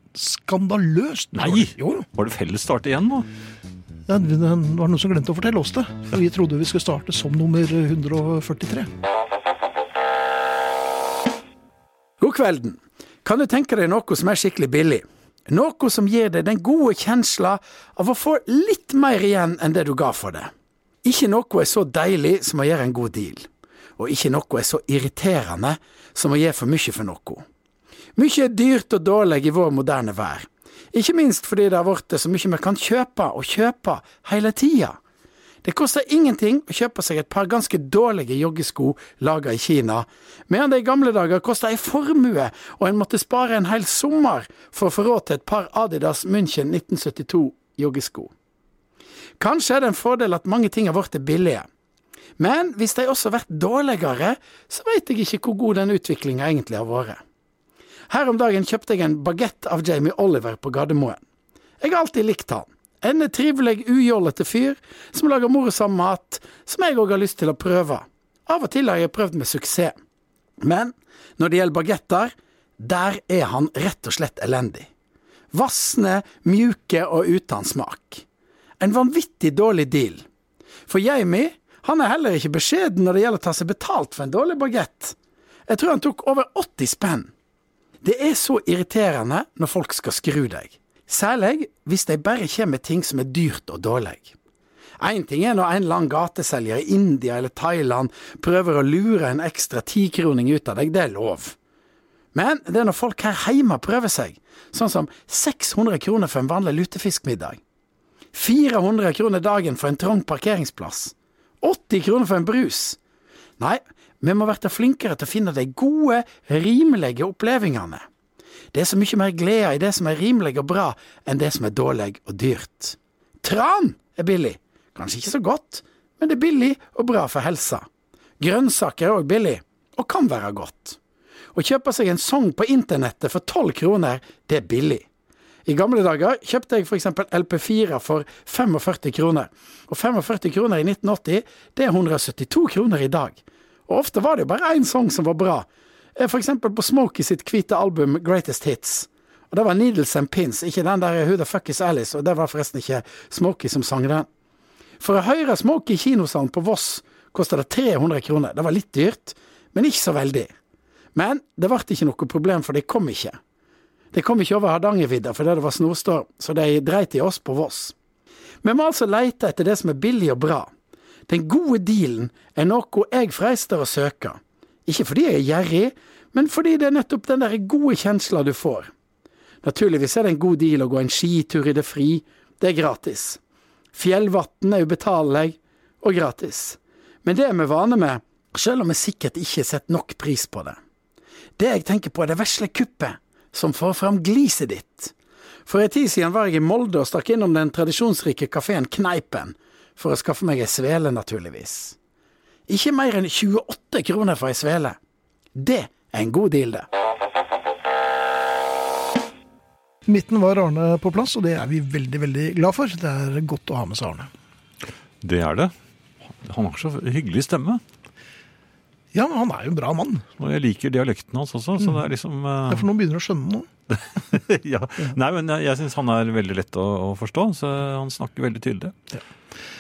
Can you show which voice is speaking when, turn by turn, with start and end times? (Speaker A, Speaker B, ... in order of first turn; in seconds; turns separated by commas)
Speaker A: 0.1-2.1, Speaker B: 1.3-3.3, Speaker A: 4.1-8.9, Speaker C: 12.2-20.5, Speaker C: 21.0-27.4, Speaker C: 28.2-35.0, Speaker C: 35.6-48.3, Speaker C: 49.4-51.7, Speaker C: 52.4-57.2, Speaker C: 58.1-61.2, Speaker C: 61.8-70.0, Speaker C: 70.6-74.9, Speaker C: 75.5-78.2, Speaker C: 78.8-80.2, Speaker C: 80.9-85.2, Speaker C: 85.7-87.3, Speaker C: 88.0-94.3, Speaker C: 95.0-101.6, Speaker C: 102.3-107.6, Speaker C: 108.3-113.0, Speaker C: 113.6-118.0, Speaker C: 118.7-127.9, Speaker C: 128.4-131.0, Speaker C: 131.5-135.1, Speaker C: 135.7-154.3, Speaker C: 155.0-160.5, Speaker C: 161.2-163.4, Speaker C: 164.1-167.9, Speaker C: 168.6-170.7, Speaker C: 171.3-178.9, Speaker C: 179.6-183.4, Speaker C: 183.9-190.8, Speaker C: 191.6-195.1, Speaker C: 195.7-202.0, Speaker C: 202.7-205.0, Speaker C: 205.6-206.9, Speaker A: 210.1-214.3, Speaker B: 215.2-215.7, Speaker B: 216.3-217.8, Speaker A: 219.1-220.2, Speaker B: 220.4-222.9, Speaker A: 222.7-223.7, Speaker B: 223.9-228.9